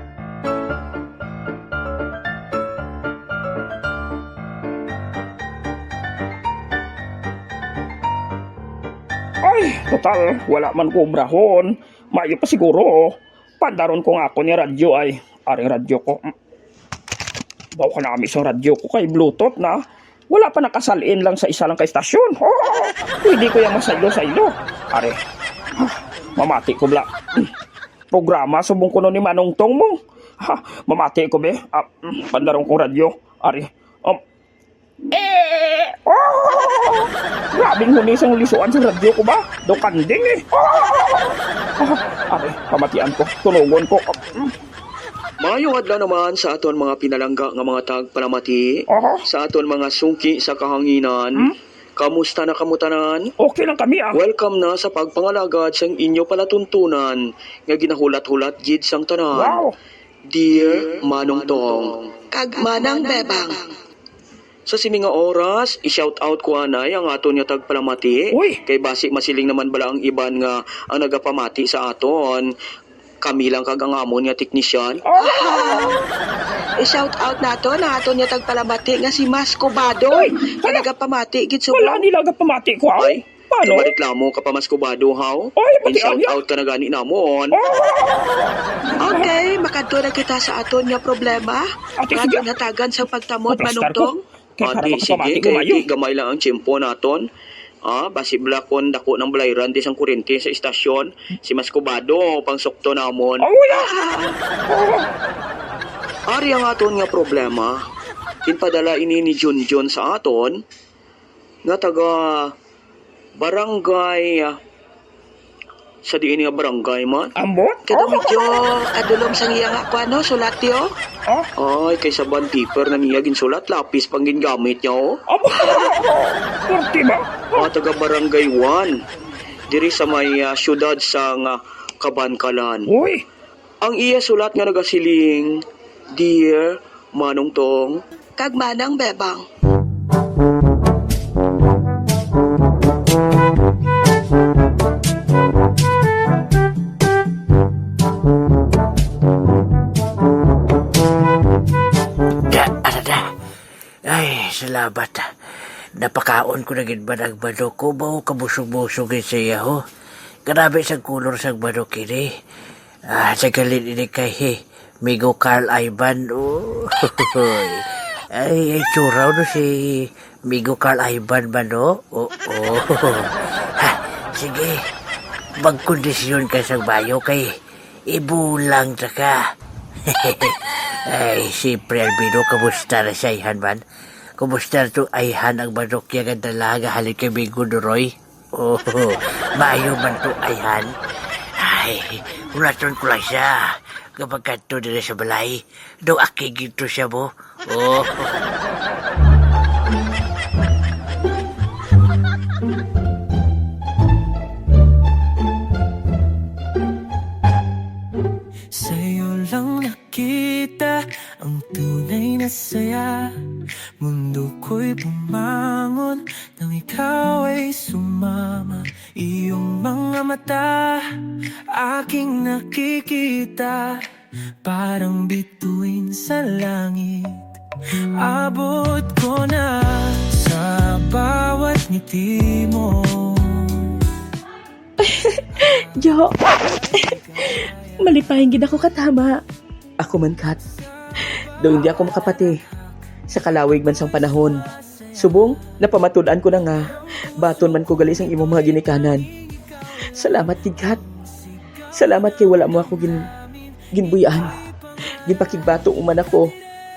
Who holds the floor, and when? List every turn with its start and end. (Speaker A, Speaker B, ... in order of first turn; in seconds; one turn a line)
Speaker A: 9.4-16.3
Speaker A: 17.8-19.8
Speaker A: 20.3-25.2
Speaker A: 25.8-27.5
Speaker A: 28.1-34.2
Speaker A: 35.1-44.5
Speaker B: 45.4-53.3
Speaker A: 48.9-49.2
Speaker A: 53.4-54.2
Speaker B: 54.1-59.6
Speaker A: 59.3-59.7
Speaker B: 60.3-62.1
Speaker C: 62.3-63.7
Speaker B: 64.7-72.5
Speaker A: 68.3-68.6
Speaker B: 73.2-75.0
Speaker A: 75.1-76.0
Speaker C: 75.2-76.0
Speaker C: 76.8-82.1
Speaker A: 80.1-80.9
Speaker A: 81.7-83.9
Speaker B: 83.0-87.6
Speaker A: 85.6-86.4
Speaker A: 87.5-89.3
Speaker C: 89.0-94.2
Speaker A: 92.0-92.5
Speaker A: 93.5-95.9
Speaker B: 94.6-97.2
Speaker B: 97.9-103.5
Speaker A: 103.4-103.9
Speaker C: 103.8-104.4
Speaker A: 104.7-105.1
Speaker B: 106.3-107.8
Speaker B: 108.5-110.6
Speaker B: 111.7-112.5
Speaker B: 113.4-114.6
Speaker B: 116.1-117.3
Speaker A: 117.4-118.6
Speaker C: 117.9-120.9
Speaker B: 121.6-125.2
Speaker A: 125.3-127.7
Speaker B: 127.6-128.9
Speaker B: 129.7-132.9
Speaker A: 132.9-133.2
Speaker B: 133.8-135.6
Speaker B: 136.2-138.0
Speaker C: 138.4-139.4
Speaker D: 152.5-153.2
Speaker D: 154.1-155.3
Speaker D: 156.0-159.8
Speaker D: 160.5-162.3
Speaker D: 163.1-174.8
Speaker D: 175.6-177.5
Speaker D: 178.1-179.4
Speaker D: 180.1-183.8
Speaker D: 184.4-190.9
Speaker D: 191.6-198.4
Speaker E: 208.7-213.4
Speaker E: 214.0-221.1
Speaker E: 221.7-224.1
Speaker E: 224.6-227.4
Speaker E: 228.2-233.9
Speaker F: 235.0-236.3
Speaker F: 238.1-239.4
Speaker G: 240.0-240.6
Speaker G: 241.6-242.5
Speaker G: 243.3-244.6
Speaker G: 245.2-246.8
Speaker G: 247.4-249.2
Speaker G: 250.2-251.0
Speaker G: 251.9-253.3
Speaker G: 253.9-254.5
Speaker G: 255.3-256.5